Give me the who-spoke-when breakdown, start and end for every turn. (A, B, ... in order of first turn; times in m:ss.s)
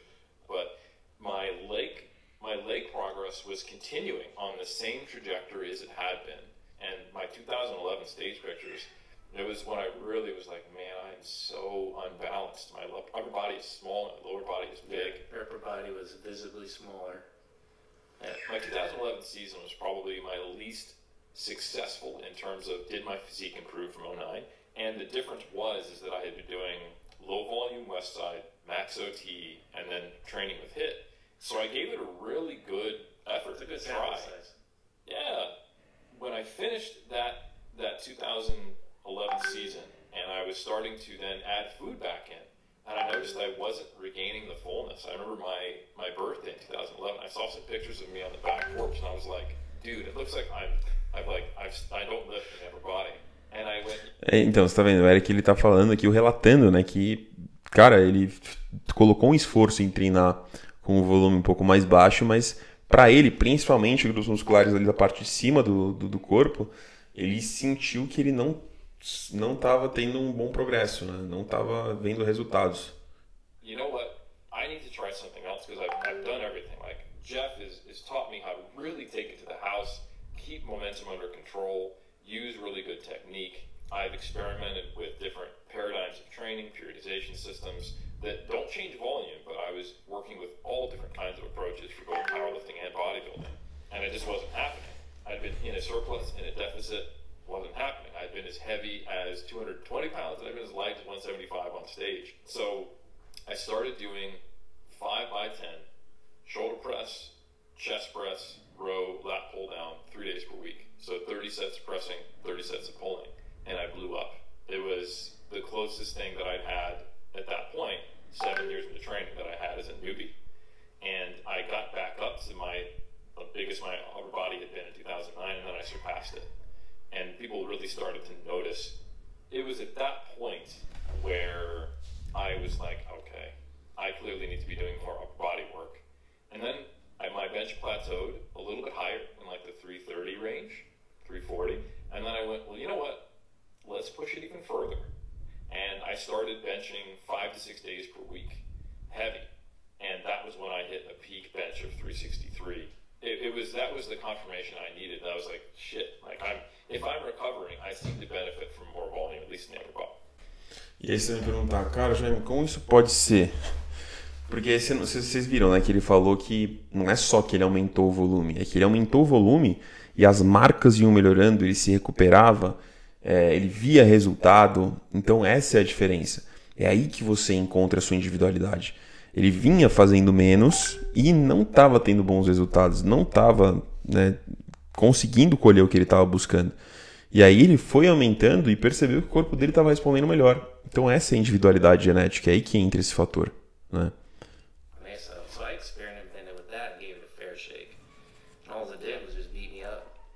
0:00.5-0:15.2 A
0:14.8-0:17.3 B
0:18.4-0:34.3 A
0:33.5-0:34.6 B
0:35.1-0:35.5 A
0:36.1-0:54.1 A
0:54.2-1:13.0 C
1:13.6-1:42.9 A
1:43.5-1:45.9 A
1:46.4-2:00.4 A
2:01.0-2:06.5 A
2:07.1-2:09.0 A
2:09.5-2:23.2 A
2:23.8-2:25.1 A
2:25.7-2:29.5 A
2:30.0-2:40.2 A
2:41.0-2:43.5 C
2:44.5-3:04.4 C
3:04.9-3:06.8 C
3:07.3-3:14.1 C
3:15.0-3:18.0 B
3:18.7-3:20.1 B